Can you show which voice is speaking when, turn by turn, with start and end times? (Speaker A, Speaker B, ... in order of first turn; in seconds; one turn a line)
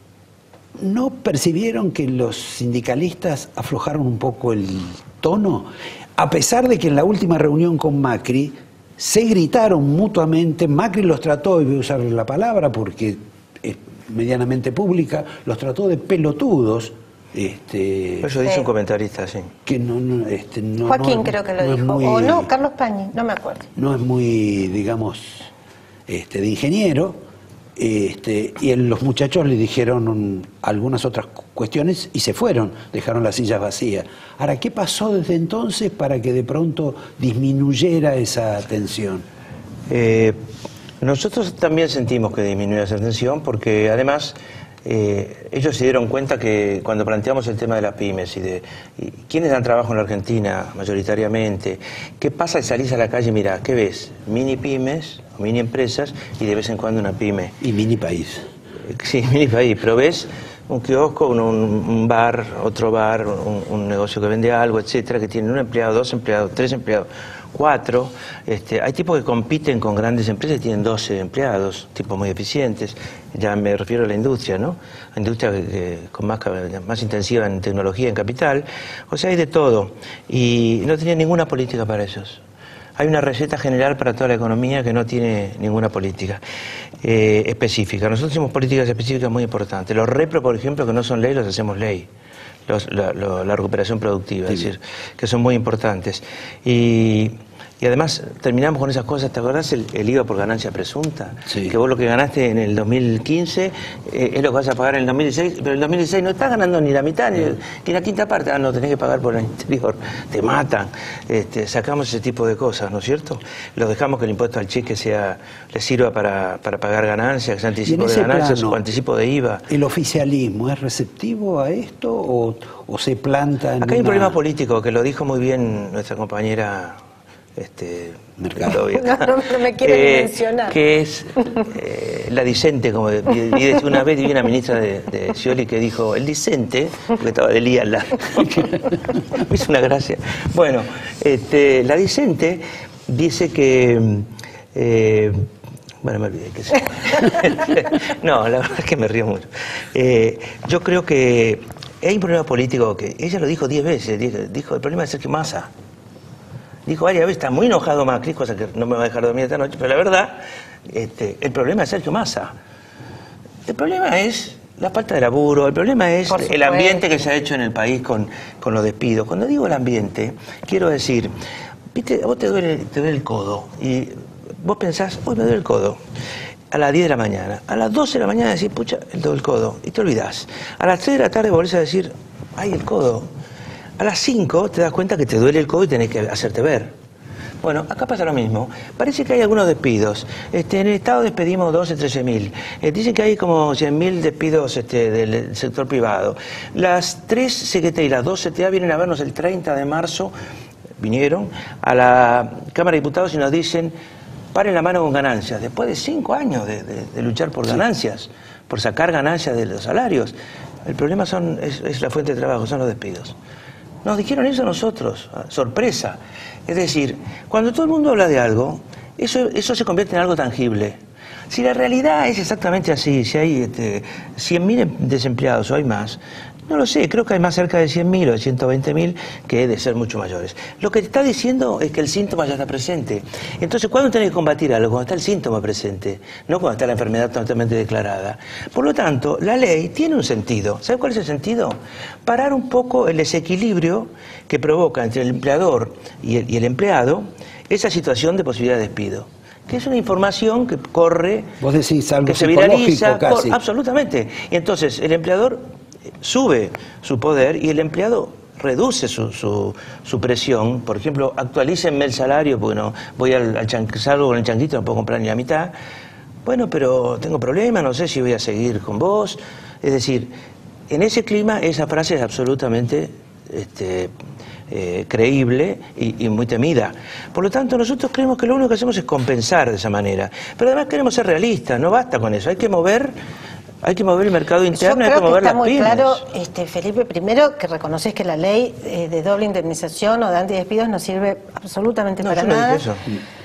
Speaker A: 0.8-18.3
Speaker B: 18.2-19.5
Speaker A: 19.7-22.5
Speaker C: 20.9-23.7
Speaker A: 23.8-25.5
Speaker A: 26.1-27.2
Speaker A: 27.8-39.2
Speaker B: 39.9-40.4
Speaker B: 41.0-57.5
Speaker A: 57.6-58.5
Speaker B: 58.9-82.4
Speaker B: 83.0-86.4
Speaker B: 87.0-92.1
Speaker B: 92.7-119.6
Speaker A: 101.5-101.8
Speaker A: 117.8-118.8
Speaker A: 119.7-124.4
Speaker B: 123.8-127.0
Speaker B: 127.6-129.3
Speaker A: 128.4-128.8
Speaker C: 128.8-130.8
Speaker B: 129.8-145.5
Speaker B: 146.0-155.7
Speaker B: 156.9-162.6
Speaker B: 163.7-171.3
Speaker C: 166.3-167.0
Speaker B: 171.9-176.0
Speaker B: 176.7-183.3
Speaker B: 184.0-186.9
Speaker B: 187.6-200.3
Speaker B: 201.0-203.9
Speaker B: 204.5-213.4
Speaker B: 214.0-221.0
Speaker B: 221.5-251.5
Speaker A: 251.6-253.6
Speaker B: 252.2-255.6
Speaker B: 256.2-265.7
Speaker B: 266.4-270.3
Speaker B: 270.9-274.1
Speaker B: 274.7-283.1
Speaker B: 283.8-286.2
Speaker C: 284.7-292.8
Speaker B: 292.2-293.1